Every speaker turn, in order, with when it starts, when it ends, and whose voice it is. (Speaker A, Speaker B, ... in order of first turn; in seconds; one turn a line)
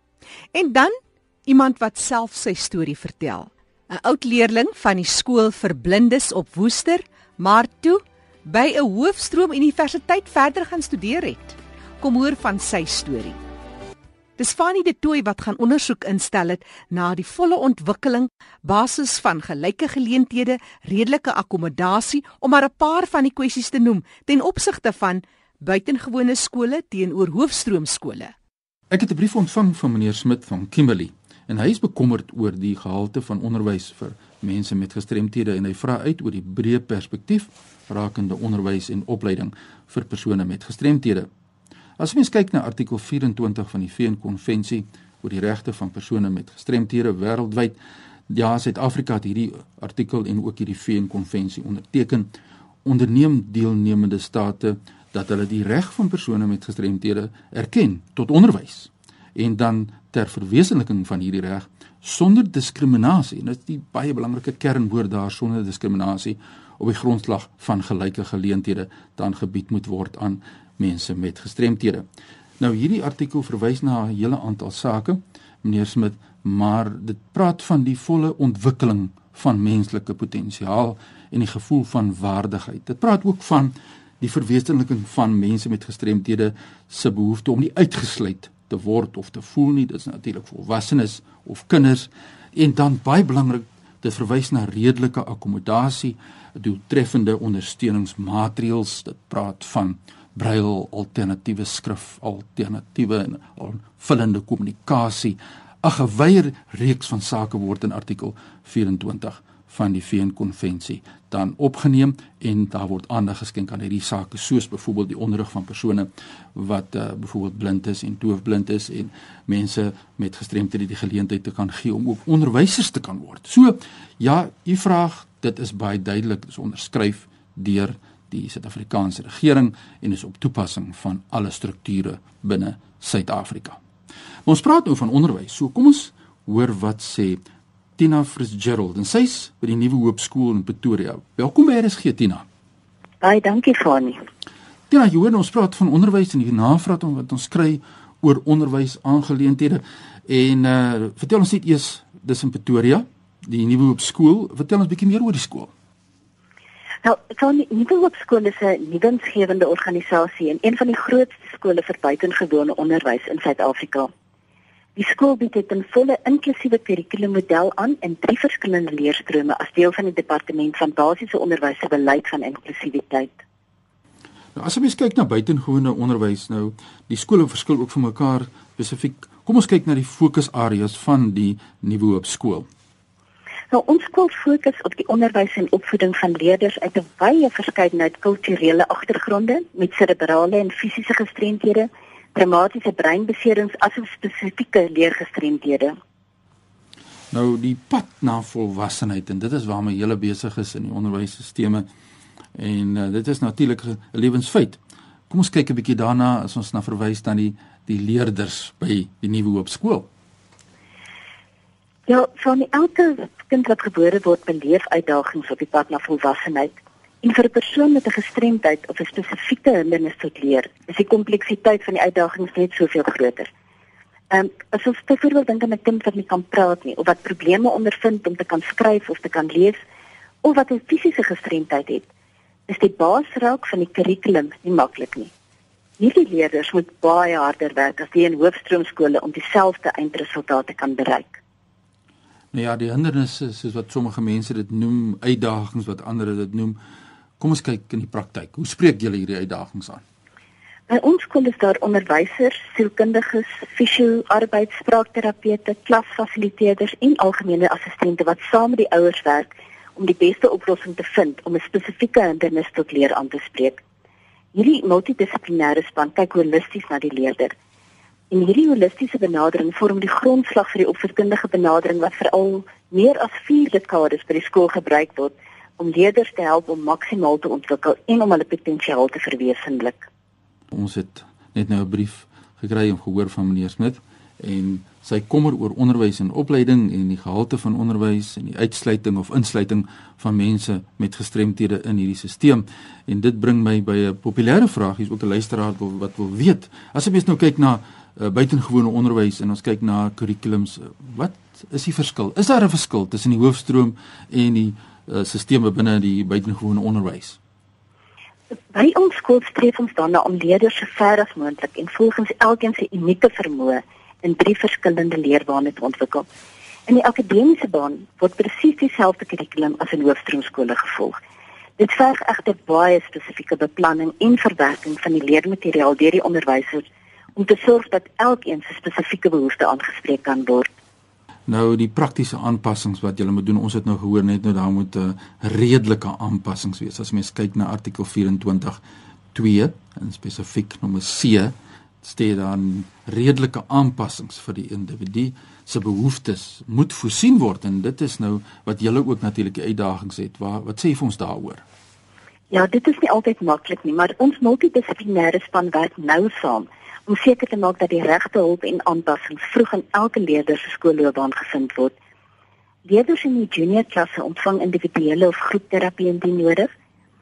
Speaker A: 0.5-13.4
Speaker A: 14.4-28.3
Speaker B: 28.9-41.3
Speaker B: 42.0-47.8
Speaker B: 48.3-52.3
Speaker B: 52.8-72.0
Speaker B: 72.6-133.8
Speaker B: 134.4-137.4
Speaker B: 138.0-142.4
Speaker C: 143.2-144.2
Speaker B: 144.9-155.7
Speaker C: 157.0-164.1
Speaker C: 164.9-173.4
Speaker B: 174.5-182.7
Speaker C: 183.7-195.9
Speaker B: 197.3-201.9
Speaker B: 202.5-210.1
Speaker C: 212.1-223.5
Speaker C: 224.3-229.8
Speaker C: 230.4-232.1
Speaker C: 232.7-235.3
Speaker C: 236.0-241.4
Speaker B: 242.5-246.8
Speaker B: 247.4-250.0
Speaker C: 250.9-263.8
Speaker C: 264.5-267.5
Speaker C: 268.3-280.1
Speaker B: 280.7-307.4
Speaker C: 308.5-316.2
Speaker C: 316.9-321.2
Speaker C: 321.8-326.8
Speaker C: 327.4-330.7
Speaker B: 331.5-338.8
Speaker B: 339.3-351.6
Speaker C: 352.5-361.9
Speaker C: 362.9-366.7